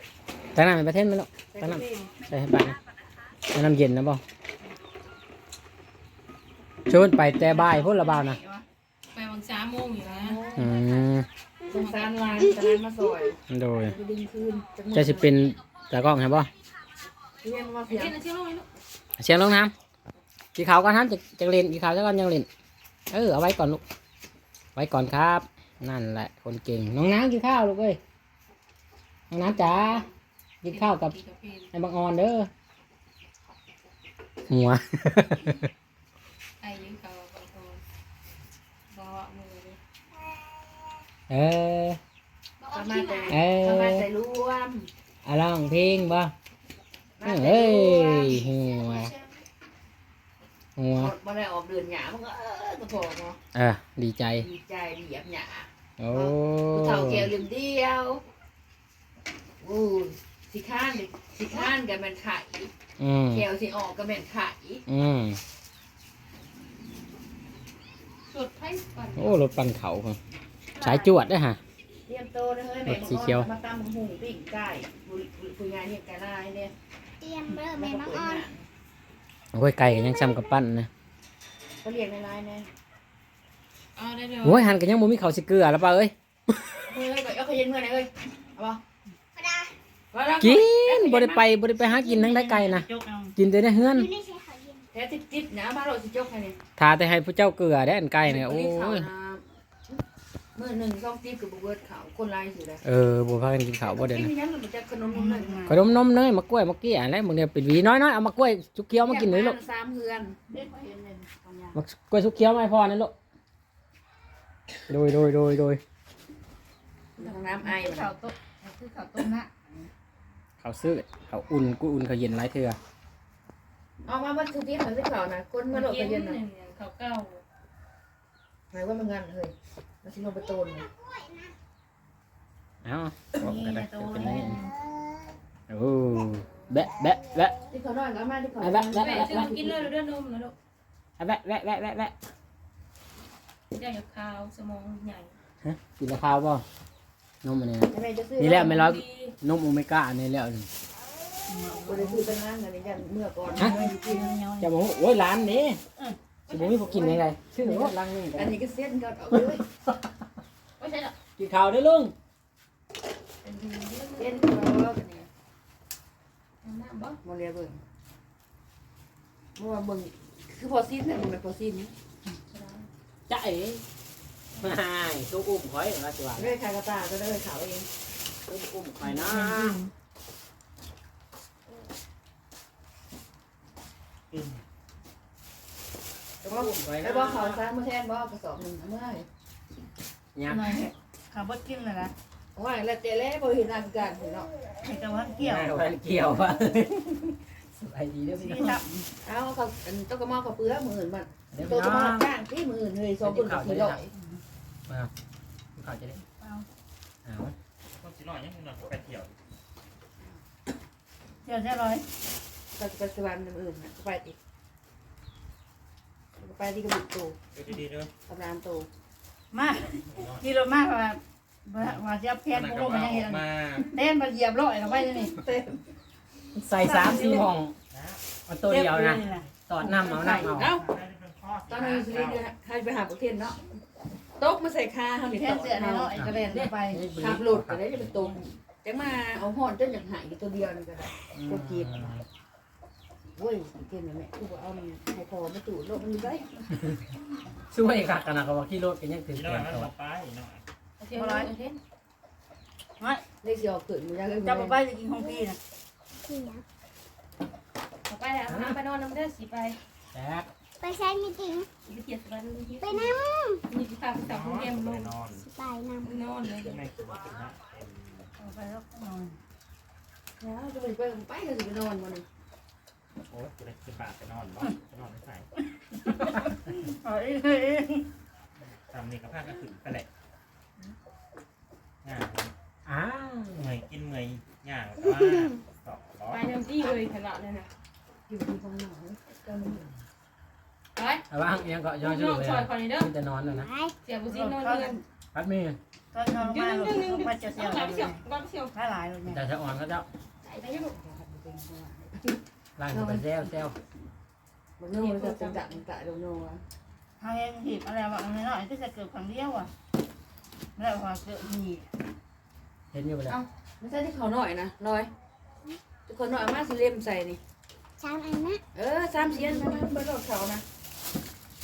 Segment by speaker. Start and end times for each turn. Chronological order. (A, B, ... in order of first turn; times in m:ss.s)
0:00.6-0:02.8 A
0:01.5-0:02.1 B
0:03.5-0:04.2 A
0:06.9-0:08.4 A
0:07.4-0:08.6 C
0:09.1-0:10.4 D
0:10.0-0:10.7 B
0:10.6-0:11.3 A
0:11.7-0:15.3 B
0:11.7-0:12.2 D
0:13.5-0:14.0 A
0:14.9-0:16.5 A
0:17.4-0:18.2 B
0:17.9-0:18.7 D
0:19.2-0:19.7 A
0:20.6-0:22.5 A
0:23.1-0:23.8 A
0:24.8-0:28.0 A
0:29.3-0:30.1 A
0:29.4-0:30.1 D
0:30.6-0:31.2 A
0:30.7-0:31.7 D
0:31.7-0:32.5 A
0:34.5-0:35.7 A
0:36.6-0:37.8 D
0:38.9-0:39.8 D
0:41.3-0:42.0 A
0:42.6-0:43.4 D
0:42.7-0:44.9 B
0:43.3-0:44.0 A
0:45.2-0:46.3 A
0:47.2-0:48.5 B
0:47.2-0:49.1 A
0:50.8-0:51.1 A
0:51.0-0:53.4 B
0:53.6-0:54.5 A
0:54.4-0:58.2 B
0:56.0-0:57.3 A
0:59.6-1:02.7 B
1:03.0-1:03.5 A
1:03.3-1:04.8 B
1:04.9-1:05.4 A
1:08.3-1:09.4 D
1:09.2-1:10.2 A
1:10.8-1:11.6 A
1:12.1-1:16.7 B
1:12.8-1:13.5 A
1:17.2-1:18.4 E
1:17.5-1:18.7 B
1:19.5-1:20.9 A
1:21.8-1:22.7 B
1:24.0-1:24.8 D
1:24.4-1:26.7 A
1:26.9-1:28.8 B
1:29.4-1:29.7 E
1:30.1-1:31.4 B
1:30.4-1:34.1 A
1:31.8-1:33.4 C
1:34.0-1:34.8 E
1:34.9-1:36.6 B
1:36.8-1:39.1 A
1:38.2-1:40.0 B
1:40.6-1:42.8 B
1:42.8-1:44.3 A
1:43.8-1:45.6 B
1:45.1-1:45.8 C
1:45.7-1:49.6 A
1:49.0-1:50.4 B
1:50.5-1:51.8 C
1:51.8-1:53.1 A
1:54.9-1:55.8 A
1:57.2-1:58.2 B
1:57.6-1:59.9 C
2:00.6-2:02.8 A
2:04.1-2:06.4 B
2:05.7-2:07.4 D
2:08.7-2:10.9 B
2:11.1-2:11.4 E
2:12.8-2:14.6 A
2:13.4-2:14.7 C
2:15.7-2:17.6 A
2:17.7-2:19.9 B
2:18.6-2:19.5 A
2:19.0-2:20.6 D
2:21.2-2:22.2 A
2:23.7-2:25.4 D
2:25.6-2:26.6 A
2:27.4-2:30.7 A
2:27.9-2:28.8 B
2:28.7-2:29.4 D
2:31.5-2:32.3 C
2:31.9-2:34.3 B
2:33.6-2:34.7 C
2:33.6-2:33.8 A
2:34.6-2:35.8 A
2:36.5-2:38.5 A
2:36.5-2:39.6 B
2:39.3-2:40.0 A
2:40.8-2:41.2 D
2:41.4-2:42.1 A
2:43.4-2:44.5 D
2:44.2-2:45.3 B
2:46.6-2:47.2 D
2:47.2-2:47.8 B
2:49.6-2:51.9 B
2:52.5-2:52.9 D
2:53.3-2:53.8 A
2:54.6-2:56.6 A
2:56.4-2:57.9 B
2:58.5-2:59.8 A
2:59.0-2:59.9 C
3:04.3-3:04.6 F
3:06.4-3:09.3 B
3:06.5-3:07.6 A
3:10.4-3:10.8 A
3:10.4-3:12.1 C
3:12.6-3:14.5 B
3:14.8-3:15.8 C
3:15.4-3:18.8 A
3:18.4-3:19.1 C
3:19.2-3:24.1 B
3:21.5-3:22.3 A
3:23.2-3:24.0 A
3:25.8-3:26.2 A
3:26.4-3:26.7 C
3:27.3-3:27.5 A
3:28.0-3:29.4 F
3:31.4-3:32.1 C
3:32.8-3:34.4 B
3:36.4-3:37.4 B
3:37.6-3:38.1 F
3:38.3-3:38.9 B
3:39.5-3:45.4 C
3:39.9-3:40.5 F
3:42.5-3:44.0 F
3:45.2-3:45.8 B
3:46.6-3:47.7 A
3:46.8-3:47.5 C
3:47.9-3:48.3 F
3:48.5-3:50.7 A
3:48.7-3:50.5 C
3:50.4-3:50.9 B
3:50.4-3:52.5 F
3:51.7-3:53.6 B
3:54.4-3:56.1 B
3:55.3-3:57.0 C
3:56.2-3:58.3 A
3:57.2-4:02.2 B
4:01.3-4:02.2 A
4:03.4-4:06.6 B
4:07.7-4:09.9 A
4:09.3-4:10.6 F
4:11.0-4:11.8 D
4:11.2-4:11.5 C
4:13.0-4:13.2 C
4:13.4-4:14.8 B
4:14.4-4:15.6 C
4:16.2-4:16.6 E
4:18.1-4:19.8 D
4:18.5-4:18.8 A
4:20.1-4:20.5 A
4:20.8-4:21.7 E
4:21.8-4:25.1 D
4:22.8-4:23.6 E
4:24.2-4:25.5 F
4:25.4-4:26.0 E
4:26.0-4:26.8 D
4:26.6-4:28.3 F
4:28.4-4:29.4 C
4:30.4-4:32.3 B
4:33.3-4:35.5 F
4:36.0-4:38.1 C
4:38.8-4:40.1 F
4:42.0-4:42.5 F
4:42.9-4:43.7 A
4:43.5-4:46.6 F
4:46.3-4:47.7 D
4:48.3-4:49.9 B
4:51.0-4:51.2 D
4:51.3-4:53.7 A
4:52.0-4:53.1 D
4:54.0-4:55.0 D
4:54.3-4:55.0 C
4:55.3-4:55.8 A
4:56.1-4:58.2 C
4:56.3-4:58.7 D
4:58.7-4:59.4 C
4:59.2-5:00.1 A
5:00.4-5:02.4 B
5:00.6-5:00.9 D
5:02.8-5:03.8 A
5:02.9-5:03.4 B
5:04.8-5:06.6 B
5:04.9-5:05.8 D
5:07.2-5:09.7 C
5:10.8-5:11.9 C
5:12.9-5:13.4 A
5:13.3-5:15.1 B
5:16.1-5:17.4 B
5:18.0-5:18.6 E
5:18.7-5:20.6 B